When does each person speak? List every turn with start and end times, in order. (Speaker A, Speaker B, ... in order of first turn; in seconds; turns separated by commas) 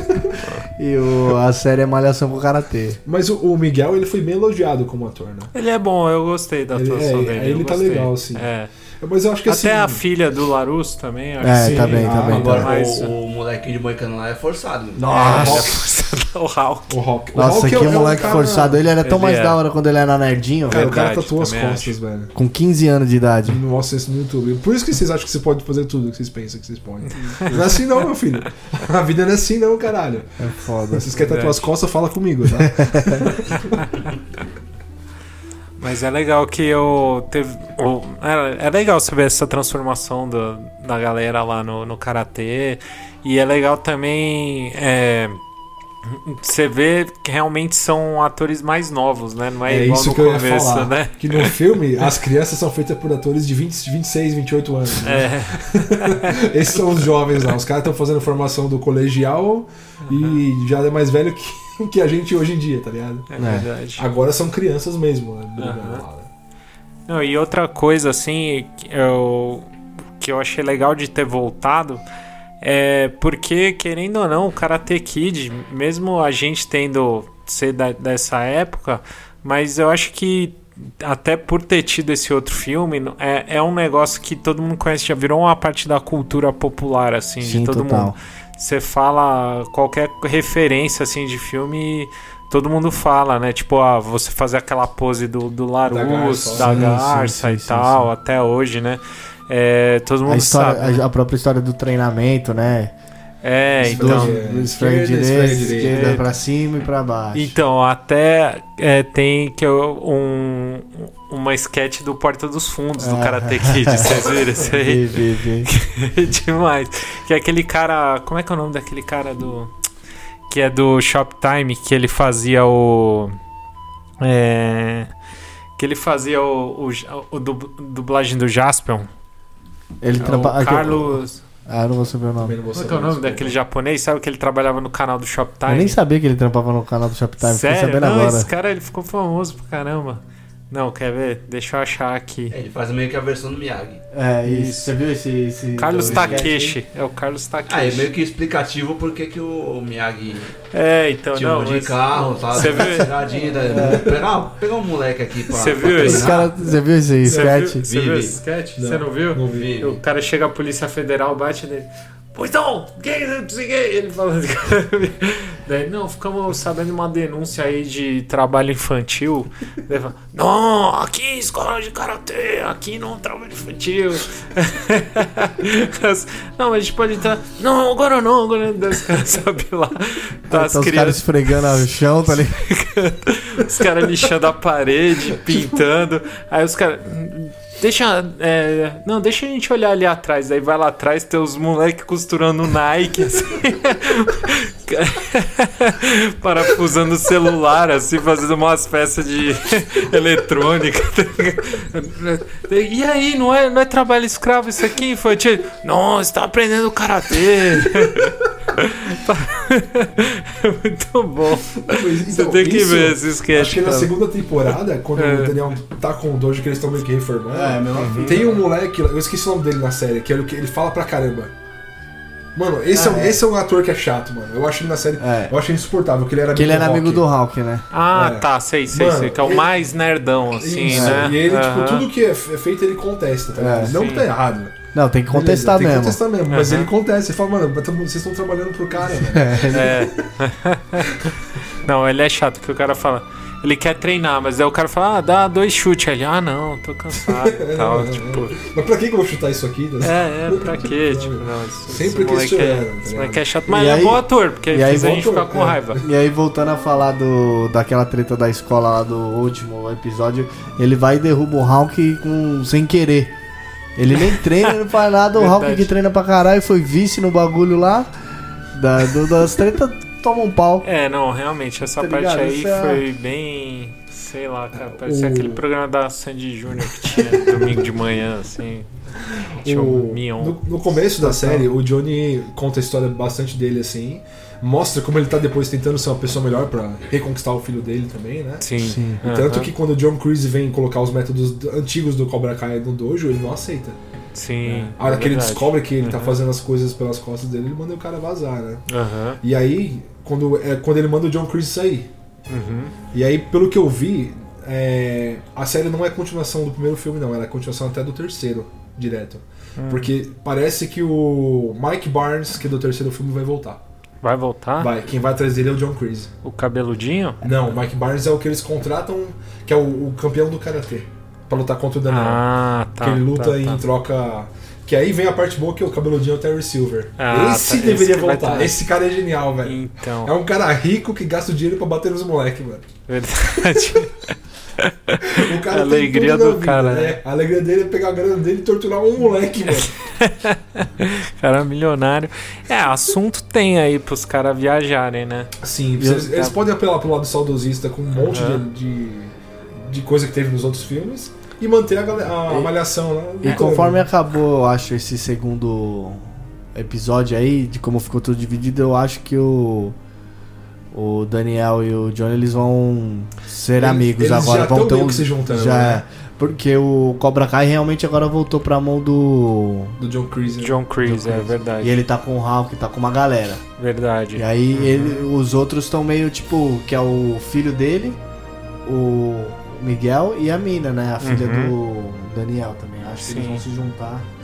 Speaker A: 0.8-3.0, Speaker B: 3.0-5.5, Speaker C: 5.5-8.7, Speaker B: 6.7-8.5, Speaker B: 9.0-10.0, Speaker C: 9.4-13.1, Speaker A: 11.4-12.7, Speaker B: 11.5-12.7, Speaker D: 12.3-15.3, Speaker A: 14.9-15.8, Speaker C: 15.1-16.9, Speaker B: 15.1-15.8, Speaker B: 16.9-18.8, Speaker A: 17.3-20.9, Speaker C: 17.8-18.3, Speaker C: 19.0-19.6, Speaker B: 20.7-22.3, Speaker C: 20.7-22.0, Speaker A: 22.3-23.6, Speaker B: 23.4-34.0, Speaker C: 27.1-28.1, Speaker A: 30.4-31.1, Speaker C: 31.1-31.7, Speaker A: 32.5-33.3, Speaker C: 33.8-34.1, Speaker C: 35.8-45.4, Speaker C: 46.1-51.6, Speaker B: 49.6-63.3, Speaker C: 55.0-56.8, Speaker C: 60.1-60.4, Speaker C: 63.3-64.0, Speaker A: 63.4-63.7, Speaker B: 64.0-66.3, Speaker C: 65.6-66.0, Speaker C: 67.1-72.0, Speaker C: 72.6-101.0, Speaker A: 87.4-88.2, Speaker B: 95.9-97.0, Speaker A: 96.5-98.1, Speaker A: 100.2-102.9, Speaker C: 103.4-104.4, Speaker B: 103.8-106.2, Speaker A: 103.8-107.5, Speaker C: 105.5-106.2, Speaker C: 107.3-119.7, Speaker A: 113.0-115.7, Speaker C: 120.5-123.3, Speaker C: 124.2-125.1, Speaker C: 125.8-129.1, Speaker A: 130.0-131.1, Speaker C: 130.2-131.4, Speaker A: 131.7-132.6, Speaker B: 132.4-133.5, Speaker C: 132.7-136.0, Speaker A: 135.7-138.5, Speaker C: 137.4-142.6, Speaker D: 142.5-144.0, Speaker A: 144.1-146.8, Speaker C: 144.4-144.9, Speaker C: 145.8-148.1, Speaker D: 146.1-146.4, Speaker D: 147.7-150.6, Speaker C: 150.7-153.1, Speaker D: 151.3-156.5, Speaker A: 153.6-154.1, Speaker C: 155.5-156.5, Speaker A: 155.9-157.8, Speaker C: 157.2-214.2, Speaker D: 157.8-158.4, Speaker B: 158.8-159.7, Speaker D: 159.5-160.0, Speaker A: 180.5-182.6, Speaker B: 207.8-208.1, Speaker B: 211.7-221.5, Speaker C: 215.2-215.6, Speaker A: 217.5-218.6, Speaker C: 218.0-218.4, Speaker B: 222.6-227.2, Speaker A: 222.9-223.4, Speaker A: 225.2-225.5, Speaker A: 226.5-227.8, Speaker C: 227.9-232.1, Speaker B: 228.1-229.7, Speaker B: 230.5-234.7, Speaker A: 230.9-231.3, Speaker A: 233.5-233.9, Speaker C: 233.8-234.3, Speaker A: 234.9-236.2, Speaker B: 235.3-240.3, Speaker C: 236.5-236.9, Speaker A: 239.2-240.0, Speaker C: 239.7-241.3, Speaker C: 241.8-248.6, Speaker B: 247.2-253.4, Speaker C: 250.0-256.0, Speaker A: 253.7-255.3, Speaker B: 254.9-256.0, Speaker A: 255.9-263.3, Speaker A: 263.9-268.1, Speaker C: 264.3-264.7, Speaker C: 265.3-265.9, Speaker A: 268.7-270.9, Speaker C: 270.8-278.9, Speaker A: 271.9-273.0, Speaker B: 274.8-275.6, Speaker B: 277.0-277.8, Speaker C: 279.6-280.6, Speaker B: 279.6-294.0, Speaker A: 281.2-281.7, Speaker C: 288.6-289.7, Speaker A: 288.8-289.2, Speaker C: 294.3-296.4, Speaker B: 295.0-298.8, Speaker C: 298.9-299.4, Speaker B: 299.4-302.1, Speaker C: 302.5-302.9, Speaker B: 303.1-313.8, Speaker C: 309.8-310.1, Speaker C: 314.2-314.9, Speaker B: 314.8-316.3, Speaker C: 316.4-317.4, Speaker B: 317.4-322.4, Speaker C: 322.1-323.8, Speaker B: 323.0-332.9, Speaker C: 327.2-328.8, Speaker C: 329.6-330.3, Speaker C: 333.1-334.2, Speaker B: 333.6-334.0, Speaker C: 334.8-337.2, Speaker B: 335.2-339.9, Speaker C: 340.0-345.5, Speaker B: 345.6-354.1, Speaker A: 346.0-346.6, Speaker C: 348.1-348.6, Speaker A: 352.4-352.7, Speaker A: 353.4-359.9, Speaker A: 360.9-370.0, Speaker B: 363.8-366.0, Speaker B: 370.0-371.6, Speaker C: 370.5-372.0, Speaker A: 371.8-373.6, Speaker C: 373.8-375.2, Speaker A: 374.4-378.2, Speaker A: 378.8-384.3, Speaker C: 381.2-381.7, Speaker C: 383.2-383.6